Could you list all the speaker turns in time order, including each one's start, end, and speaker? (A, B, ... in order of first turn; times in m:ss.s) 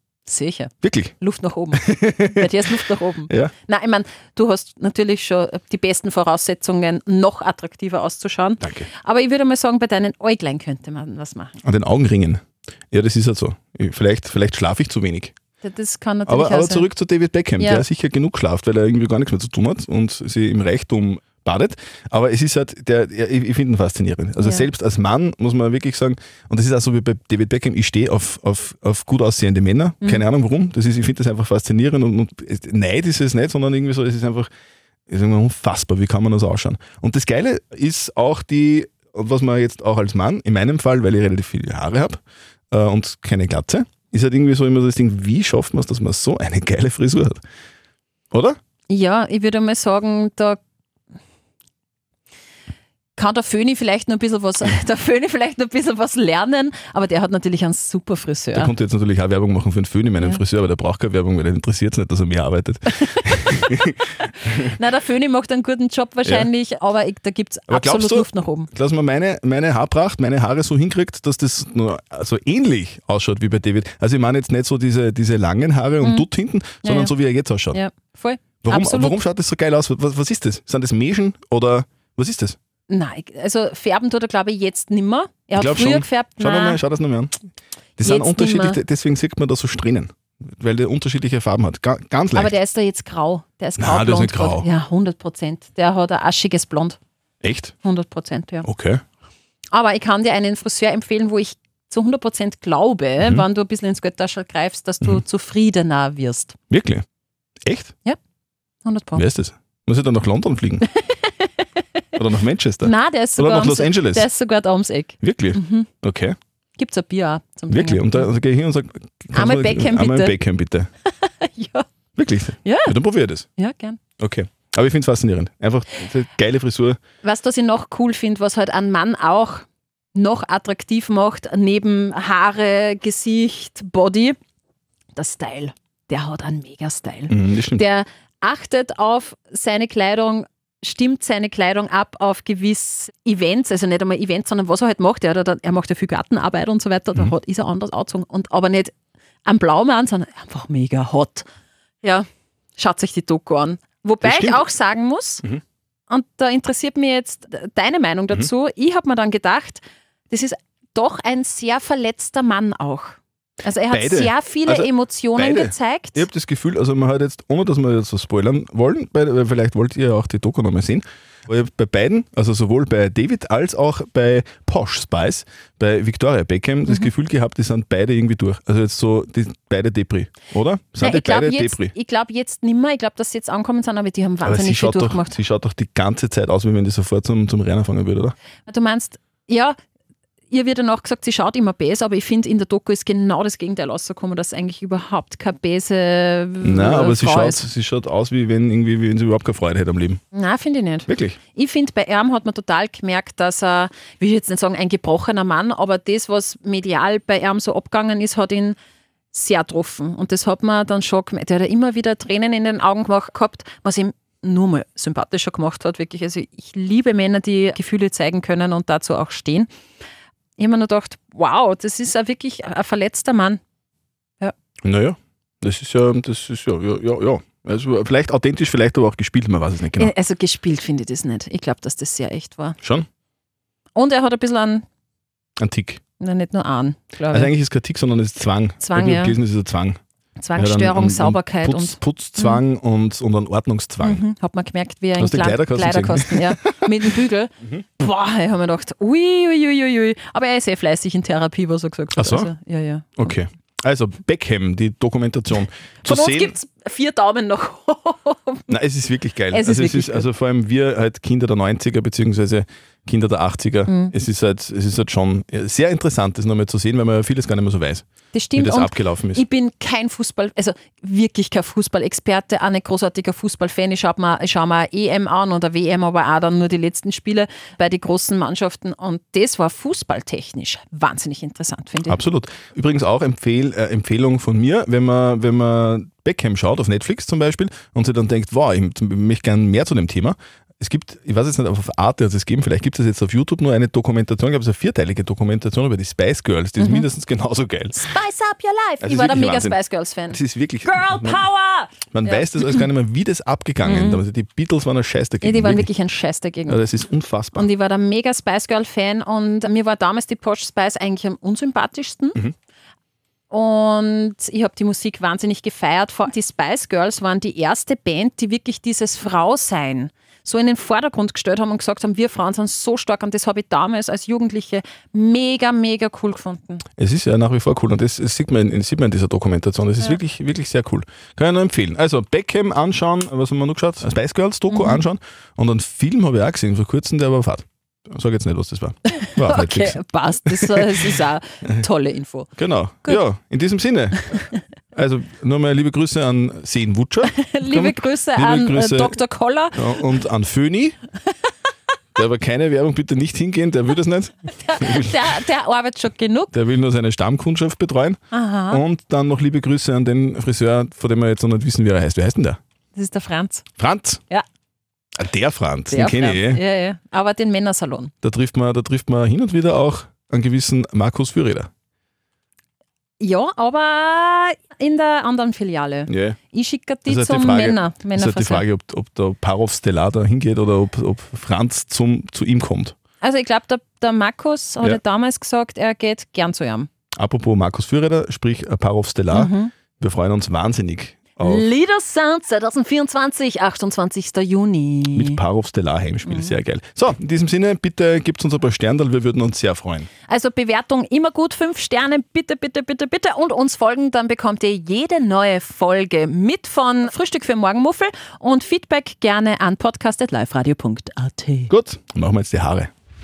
0:00.2-0:11.6 A
0:00.8-0:01.1 B
0:01.7-0:03.5 B
0:08.6-0:08.9 B
0:11.6-0:15.3 B
0:15.6-0:16.9 A
0:16.3-0:34.5 B
0:17.6-0:17.8 A
0:24.4-0:24.7 A
0:35.1-0:47.4 B
0:48.3-0:48.6 B
0:48.9-0:50.6 A
0:53.1-0:58.7 A
0:58.5-1:03.9 B
1:00.2-1:00.4 A
1:03.1-1:08.7 A
1:07.7-1:17.8 B
1:16.0-1:16.3 A
1:16.8-1:17.1 A
1:17.7-1:19.2 A
1:18.6-1:22.6 B
1:22.9-1:26.8 A
1:25.6-1:27.4 B
1:28.0-1:32.6 B
1:28.0-1:28.8 A
1:32.3-1:37.0 A
1:33.8-1:34.7 B
1:37.4-1:37.7 B
1:37.8-1:38.7 A
1:38.6-1:39.0 B
1:39.7-1:46.6 A
1:46.7-1:47.0 B
1:47.6-1:47.9 B
1:48.8-1:49.2 A
1:49.2-1:50.8 B
1:51.0-1:51.5 A
1:52.2-1:54.3 B
1:52.8-1:55.9 A
1:55.2-1:56.4 B
1:56.8-1:58.3 A
1:57.7-2:00.9 B
1:59.3-2:00.4 A
2:01.0-2:01.9 A
2:02.2-2:03.4 B
2:02.6-2:03.0 A
2:03.6-2:04.0 A
2:04.2-2:07.0 B
2:07.2-2:14.4 A
2:15.1-2:31.4 A
2:17.3-2:17.8 B
2:32.0-2:35.4 A
2:34.2-2:34.6 B
2:36.1-2:46.3 A
2:43.9-3:01.9 B
3:01.0-3:05.4 A
3:04.4-3:08.3 B
3:08.6-3:09.8 A
3:10.5-3:17.6 A
3:16.6-3:20.2 B
3:20.3-3:28.8 A
3:21.1-3:21.4 B
3:29.3-3:39.7 A
3:40.6-3:43.6 A
3:44.8-3:50.1 B
3:50.0-3:52.8 A
3:53.9-3:54.8 A
3:55.6-3:56.0 B
3:56.2-3:57.5 A
3:57.3-4:00.0 B
3:58.8-3:59.4 A
4:00.4-4:02.6 A
4:00.6-4:04.2 B
4:04.0-4:13.2 A
4:05.2-4:06.8 B
4:12.2-4:12.5 B
4:13.2-4:16.6 B
4:16.0-4:18.7 A
4:18.7-4:29.4 B
4:19.5-4:20.3 A
4:23.9-4:24.1 A
4:28.3-4:42.2 A
4:42.1-4:58.0 B
4:56.8-4:57.1 A
4:57.9-5:02.8 A
4:59.0-4:59.8 B
5:00.3-5:01.4 B
5:02.1-5:05.9 B
5:03.8-5:04.2 A
5:05.4-5:06.8 A
5:06.7-5:07.7 B
5:07.5-5:12.4 A
5:13.5-5:26.8 A
5:27.0-5:41.1 B
5:34.7-5:35.0 A
5:39.1-5:42.5 A
5:42.6-5:44.3 B
5:44.9-5:49.2 B
5:47.3-5:50.0 A
5:49.7-5:51.0 B
5:52.2-5:55.2 B
5:54.5-5:56.5 A
5:56.5-5:58.2 B
5:58.3-5:58.8 A
5:58.7-6:02.6 B
6:02.9-6:03.6 A
6:03.8-6:04.2 B
6:05.2-6:06.6 B
6:05.9-6:08.1 A
6:08.2-6:11.7 B
6:13.2-6:18.6 A
6:16.1-6:16.4 B
6:17.0-6:22.9 B
6:23.2-6:26.9 A
6:27.2-6:31.7 B
6:29.3-6:29.7 A
6:31.4-6:35.4 A
6:35.1-6:40.1 B
6:36.2-6:36.5 A
6:40.3-6:51.7 A
6:51.7-6:52.9 B